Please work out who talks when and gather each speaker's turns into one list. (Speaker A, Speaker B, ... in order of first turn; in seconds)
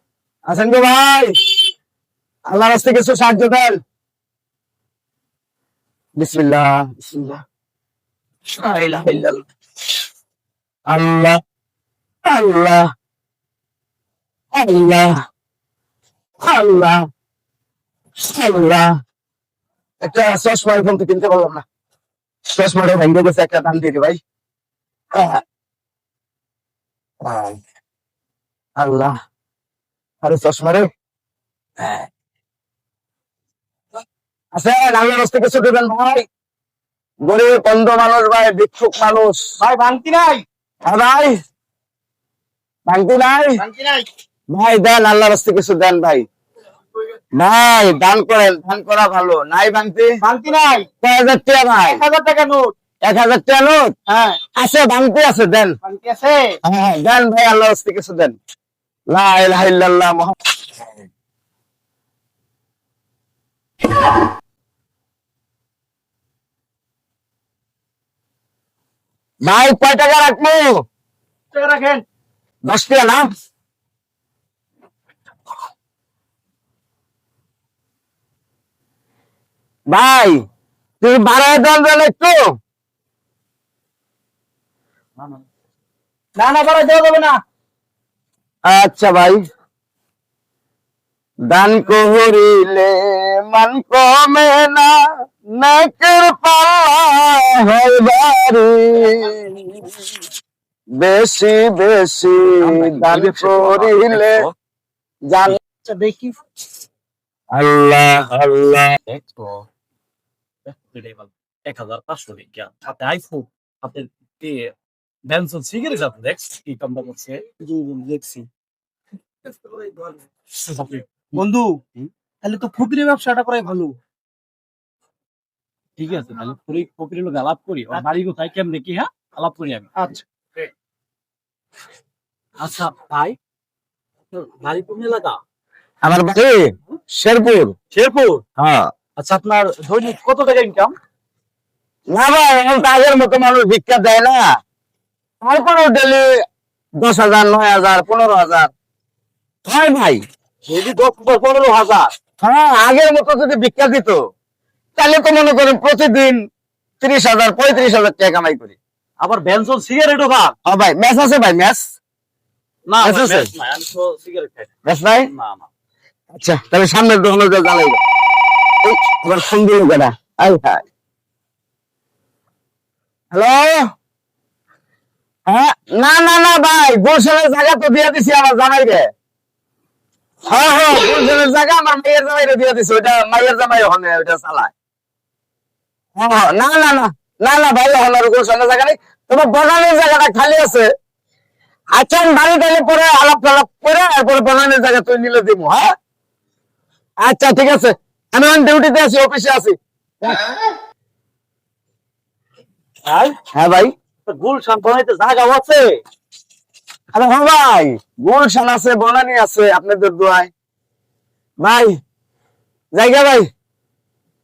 Speaker A: 0.5-1.3, 2.5-3.8, 6.2-7.4, 8.6-9.4, 10.9-11.4, 12.2-12.8, 14.5-15.2, 16.4-17.1, 18.2-18.9, 20.0-21.6, 22.5-24.2, 25.1-25.4, 27.2-27.6, 28.8-29.1, 30.2-30.9, 31.8-32.0, 34.5-36.2, 37.2-39.5, 40.8-41.3, 42.9-43.6, 44.5-46.2, 47.4-50.1, 51.0-52.0, 53.0-53.9, 54.5-55.7, 56.6-58.4, 59.1-60.4, 69.4-70.8, 72.7-73.2, 79.9-80.4, 81.0-82.4, 88.7-89.4, 91.5-95.0, 95.6-100.0, 101.0-104.4, 105.3-105.6, 107.5-109.0, 136.0-137.7, 138.6-138.9, 142.1-144.4, 145.4-146.3, 147.0-148.7, 149.7-150.2, 152.4-154.2, 155.0-156.4, 157.0-158.8, 160.6-161.9, 163.0-163.5, 164.8-165.3, 166.3-168.0, 168.8-170.8, 173.3-173.9, 175.5-179.1, 180.5-184.7, 186.2-190.9, 191.9-195.9, 197.2-200.4, 203.5-203.9, 207.1-210.5, 211.6-211.9, 212.9-213.5
Speaker B: 39.6-40.4, 43.6-44.0, 50.2-50.9, 51.8-52.7, 54.1-54.4, 55.8-56.5, 71.5-72.0, 86.4-87.4, 105.8-106.3, 117.9-118.4, 121.3-121.8, 122.4-123.9, 130.0-130.2
Speaker C: 102.5-104.5, 109.0-109.6, 110.7-114.7, 115.3-118.3, 120.7-121.0, 126.0-129.9, 132.6-133.3, 134.3-135.4, 137.9-138.4, 139.2-140.9, 150.7-152.1, 159.2-160.5, 162.9-164.7, 165.3-165.7, 203.1-203.3, 204.2-205.9